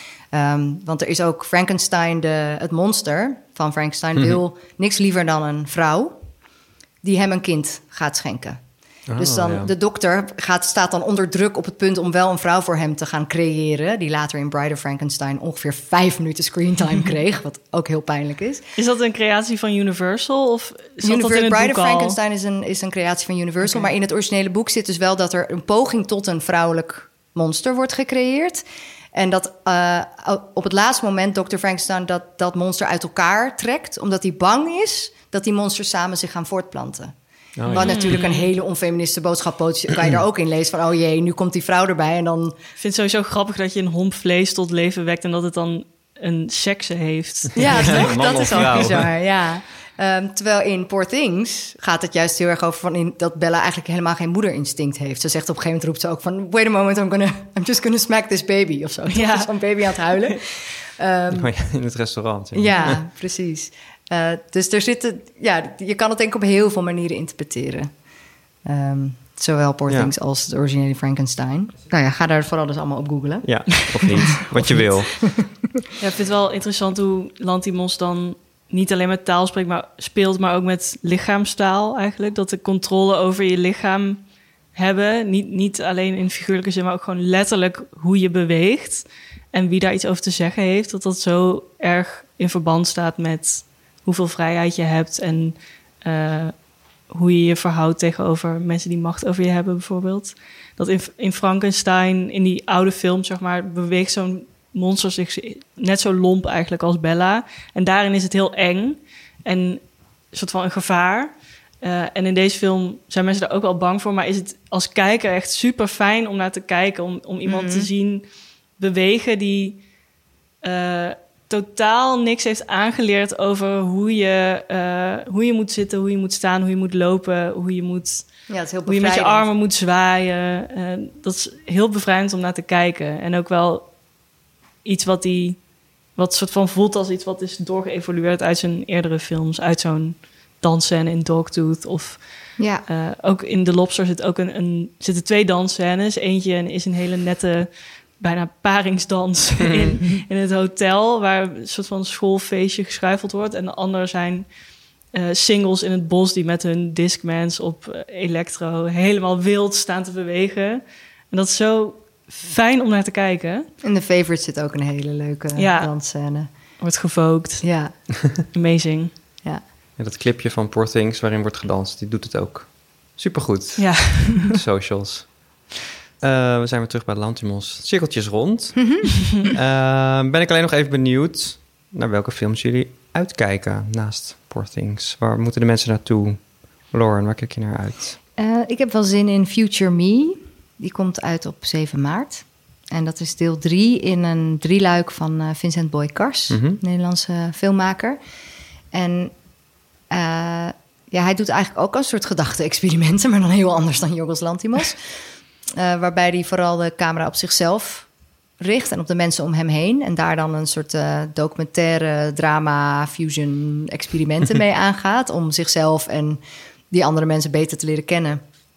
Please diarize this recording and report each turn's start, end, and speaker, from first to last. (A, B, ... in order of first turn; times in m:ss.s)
0:00.3-0:06.2 A
0:07.0-0:08.6 A
0:09.1-0:09.7 B
0:09.2-0:18.6 A
0:18.8-0:22.2 C
0:21.0-0:28.6 A
0:29.1-0:37.1 A
0:37.6-0:38.2 B
0:37.6-0:42.6 A
0:37.7-0:38.4 C
0:42.8-0:48.4 C
0:47.6-1:01.5 A
0:47.6-0:49.1 B
0:59.1-0:59.5 C
1:00.1-1:00.4 C
1:01.3-1:03.0 B
1:02.5-1:07.9 A
1:08.6-1:15.5 A
1:09.9-1:10.1 B
1:13.4-1:15.2 B
1:16.0-1:24.2 C
1:24.7-1:58.2 C
1:57.4-1:57.9 A
1:58.8-1:59.8 C
2:00.6-2:08.3 C
2:08.5-2:09.4 A
2:08.8-2:13.9 C
2:14.8-2:15.6 C
2:16.2-2:34.5 C
2:22.6-2:22.8 A
2:29.6-2:30.0 B
2:35.1-2:43.7 C
2:43.8-2:46.5 A
2:45.6-2:45.9 C
2:46.8-2:47.7 C
2:47.6-2:48.1 A
2:48.5-2:49.1 C
2:50.0-2:55.4 B
2:53.8-2:54.6 C
2:56.2-3:08.2 B
2:58.8-2:59.0 A
3:08.4-3:18.2 A
3:16.5-3:16.8 B
3:18.9-3:19.3 A
3:20.1-3:28.1 A
3:28.6-3:36.4 A
3:36.9-3:38.4 A